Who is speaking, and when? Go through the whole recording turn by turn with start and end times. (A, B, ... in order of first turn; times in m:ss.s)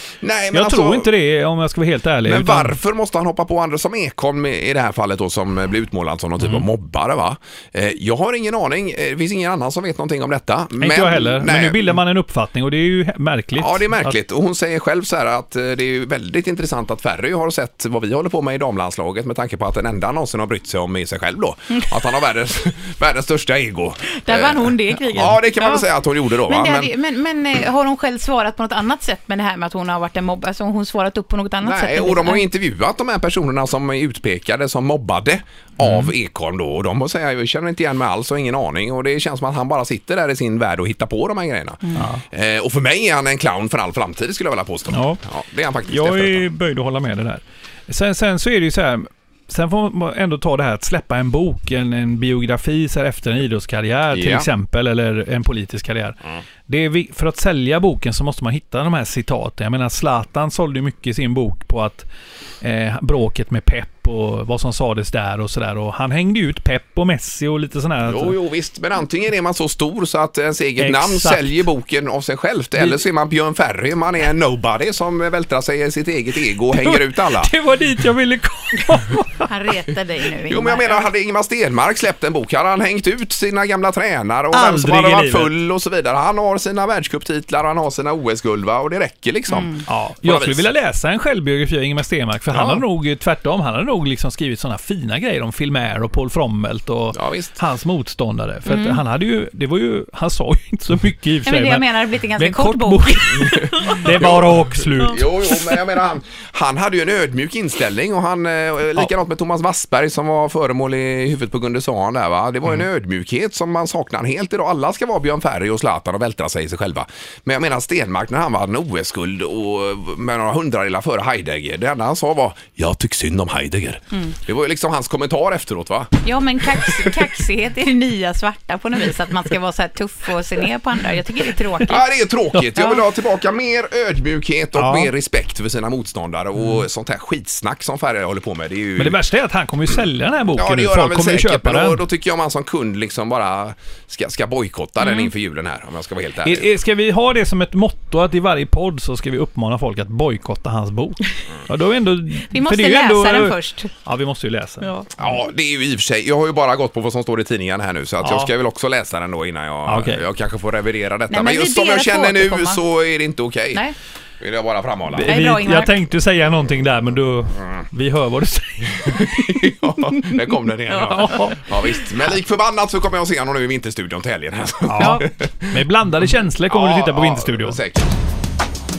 0:00.2-0:01.1 A
0:00.5-0:02.8 B
0:02.2-0:11.9 A
0:10.8-0:14.2 B
0:13.6-0:26.9 A
0:24.2-0:25.9 C
0:26.4-0:32.4 C
0:31.6-0:46.5 A
0:35.8-0:36.1 B
0:42.0-0:42.2 B
0:44.9-0:45.2 B
0:45.9-1:02.1 B
0:54.1-0:54.5 A
1:02.6-1:08.4 B
1:08.1-1:17.5 A
1:10.8-1:11.5 B
1:12.8-1:13.0 B
1:16.8-1:19.5 B
1:19.5-1:21.1 C
1:20.5-1:30.7 A
1:24.5-1:25.5 B
1:29.5-1:29.8 C
1:29.9-1:41.9 B
1:32.5-1:32.8 A
1:37.1-1:37.6 A
1:38.7-1:39.0 C
1:41.5-1:44.1 C
1:42.4-1:45.3 B
1:43.6-2:06.2 A
2:06.2-2:12.0 C
2:06.8-2:07.1 A
2:11.9-2:19.2 A
2:14.8-2:15.1 B
2:19.0-2:22.0 B
2:20.6-2:26.7 A
2:25.0-2:25.3 C
2:26.4-2:34.9 B
2:32.5-2:33.9 C
2:34.8-2:35.1 C
2:35.2-2:43.8 A
2:38.2-2:38.5 B
2:39.9-2:40.2 B
2:41.3-2:42.8 C
2:44.4-2:45.4 A
2:45.1-2:49.7 B
2:45.3-2:46.0 C
2:49.0-2:55.7 A
2:50.9-2:51.6 C
2:51.0-2:51.6 B
2:54.8-2:57.8 B
2:55.0-2:55.3 C
2:56.7-2:58.1 A